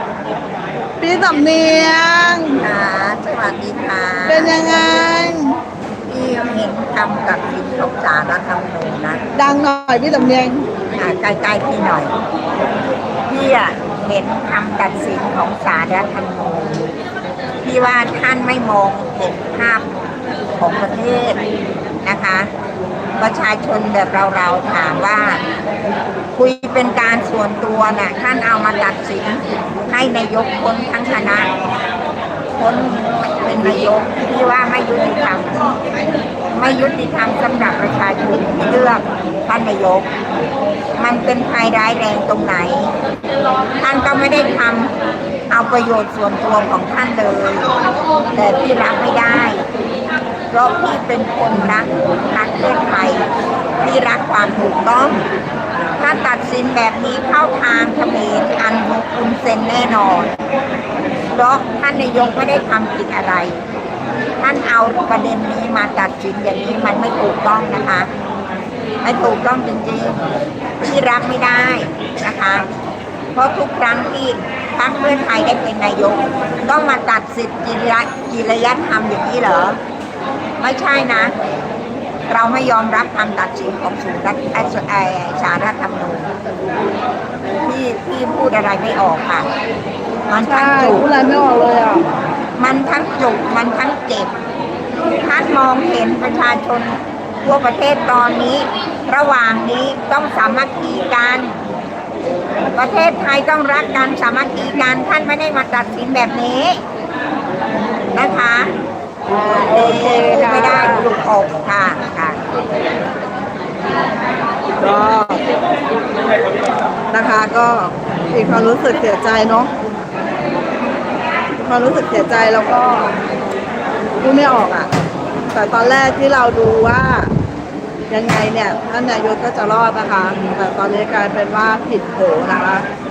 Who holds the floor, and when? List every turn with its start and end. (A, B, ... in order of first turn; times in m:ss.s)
0:01.0-0:02.6 A
0:02.6-0:04.8 B
0:04.2-0:05.6 A
0:06.1-0:09.2 B
0:09.3-0:10.6 A
0:10.9-0:12.1 B
0:13.3-0:16.9 B
0:17.6-0:19.9 B
0:20.6-0:21.4 B
0:22.0-0:22.5 B
0:23.2-0:25.4 B
0:26.3-0:31.5 B
0:32.6-0:35.8 B
0:36.5-0:40.1 B
0:41.0-0:42.9 B
0:43.8-0:44.9 B
0:45.5-0:47.7 B
0:48.3-0:49.7 B
0:50.5-0:55.2 B
0:56.0-1:00.3 B
1:01.3-1:03.6 B
1:04.4-1:08.1 B
1:09.0-1:10.2 B
1:10.8-1:12.7 B
1:13.3-1:19.8 B
1:20.6-1:21.3 B
1:22.3-1:26.3 B
1:27.6-1:29.5 B
1:30.3-1:31.1 B
1:30.3-1:32.0 A
1:32.6-1:34.3 B
1:35.1-1:41.6 B
1:42.7-1:46.8 B
1:48.1-1:48.7 B
1:49.3-1:51.1 A
1:49.5-1:52.4 B
1:54.8-1:55.4 A
1:57.1-1:59.7 A
2:01.6-2:03.2 A
2:04.2-2:04.9 A
2:05.5-2:07.3 A
2:08.1-2:12.8 A